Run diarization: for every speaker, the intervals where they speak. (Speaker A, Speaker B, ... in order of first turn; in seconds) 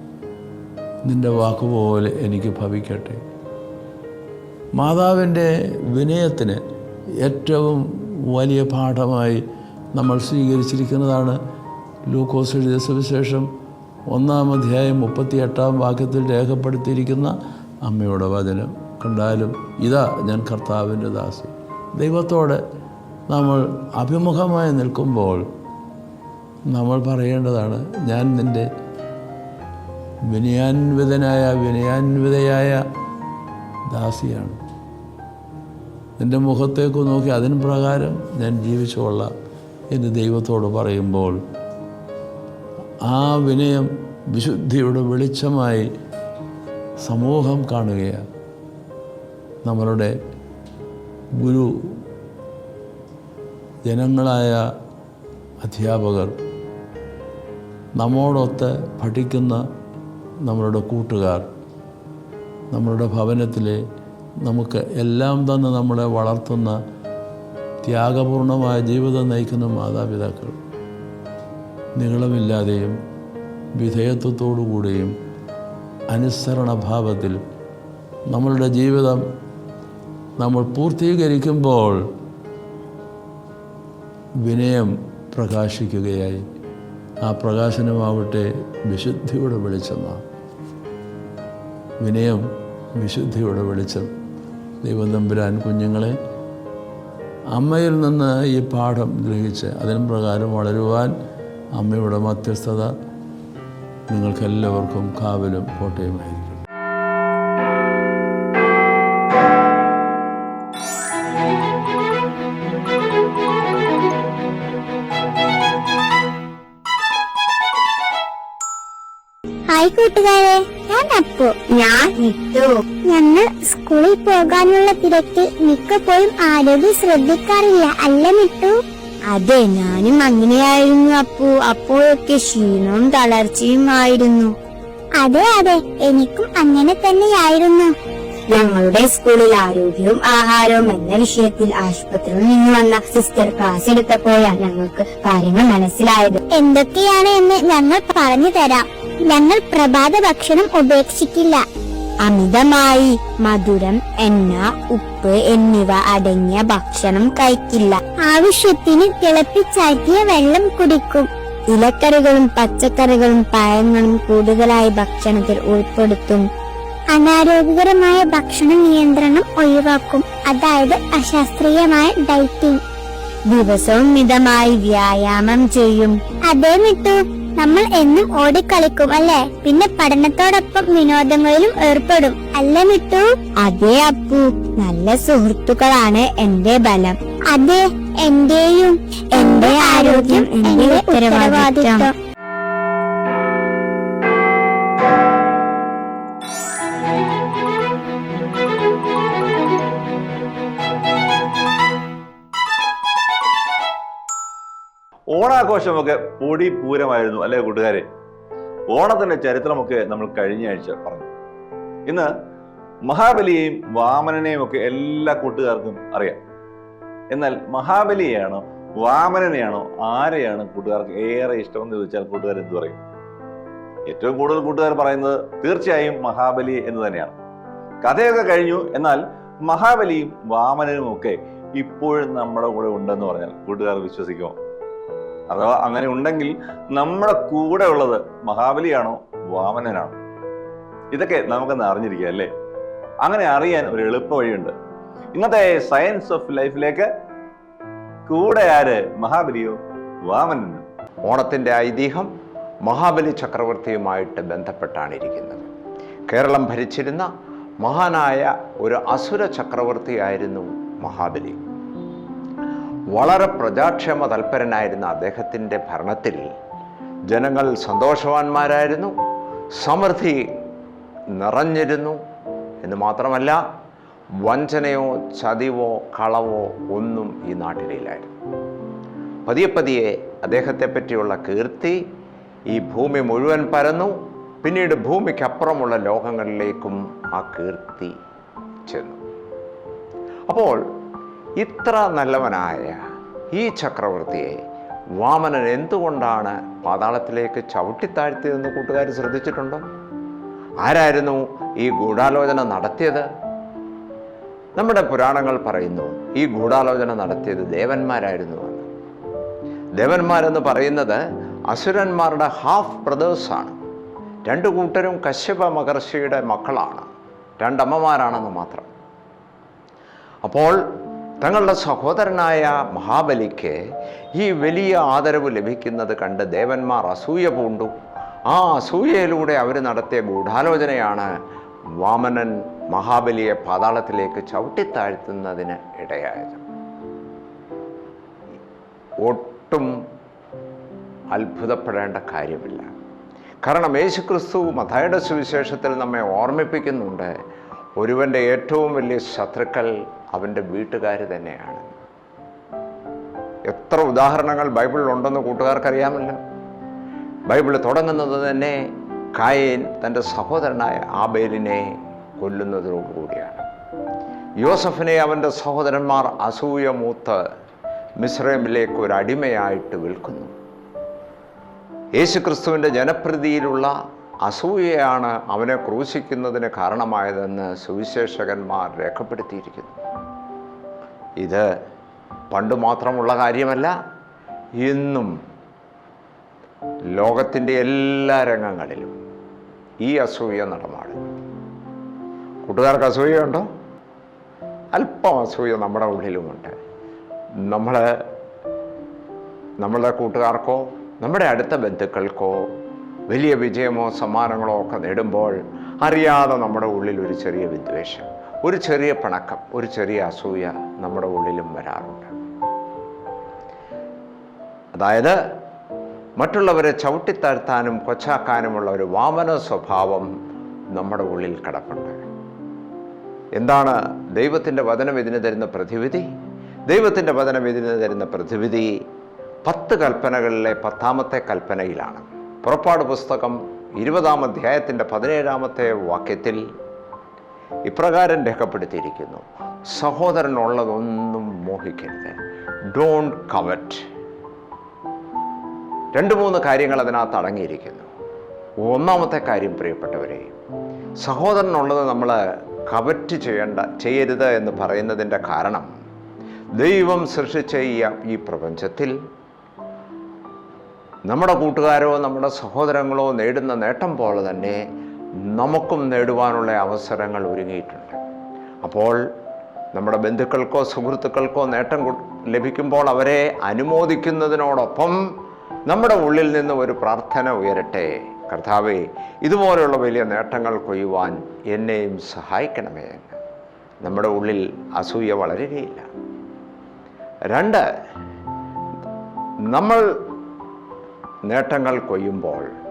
Speaker A: 1.0-3.2, 4.7-6.6, 7.2-9.4, 9.9-11.3, 12.1-13.5, 14.1-17.3, 17.8-22.6, 23.3-25.5, 26.7-28.7, 30.3-32.8, 33.9-34.6, 36.2-39.3, 39.9-41.4, 43.0-45.9, 47.0-48.2, 49.6-50.1, 51.4-52.0, 53.8-54.6, 55.6-56.3, 58.0-59.6, 60.4-61.4, 62.7-63.8, 64.4-66.8, 67.8-70.5, 72.0-72.9, 73.8-75.1, 76.1-77.4, 78.3-79.2, 80.4-82.0, 84.4-86.4, 87.2-90.2, 92.0-92.4, 93.0-94.1, 94.8-96.2, 97.5-101.1, 101.8-102.9, 104.1-106.6
Speaker B: 119.7-121.6, 123.0-128.8, 135.2-137.9, 146.5-151.6, 158.2-161.3, 167.1-172.8, 176.5-183.3, 187.5-192.1
Speaker C: 121.7-122.8, 129.3-134.5, 138.5-146.4, 152.2-158.0, 161.7-166.4, 173.5-176.1, 183.6-187.2, 189.4-192.1
Speaker D: 205.3-208.0, 208.9-211.3, 213.1-216.4, 217.3-223.0, 224.1-227.3, 228.0-234.5, 235.5-240.1, 241.1-242.5, 243.2-244.7, 245.3-247.1, 248.3-249.8, 250.3-250.8
Speaker E: 251.2-252.3, 252.8-255.6, 256.3-257.3, 257.8-261.6, 263.1-266.4, 267.3-269.1, 269.8-270.4, 271.4-272.2, 272.8-273.6, 274.4-278.3, 279.4-282.0, 282.7-288.1, 288.9-289.2, 290.5-290.8, 291.6-293.0, 293.5-294.6, 295.2-299.8, 300.8-303.2, 304.8-308.9, 310.0-313.7, 314.4-317.1, 317.6-318.9, 320.4-320.8, 321.4-323.8, 324.4-327.9, 328.5-331.3, 332.0-336.6, 339.2-339.9, 341.3-342.9, 343.6-347.3, 348.0-351.9, 353.7-356.4, 357.5-358.8, 359.4-361.9, 362.4-363.6, 364.6-367.4, 368.2-370.5, 372.1-373.9, 374.4-379.9, 381.4-381.6, 382.5-383.9, 384.8-385.3, 387.1-389.1, 390.0-391.2, 392.6-393.6, 394.9-396.7, 397.7-398.0, 399.8-402.6, 403.3-412.3, 414.9-415.4, 416.4-420.3, 420.9-422.2, 423.6-426.3, 426.9-428.9, 429.6-436.6, 437.9-442.4, 442.9-444.0, 446.1-448.1, 448.8-450.5, 451.2-455.9, 456.8-459.1, 461.3-464.8, 465.5-468.2, 468.8-469.2, 469.9-475.2, 475.9-483.3, 484.0-486.1, 487.5-487.8, 489.7-490.0, 491.4-492.7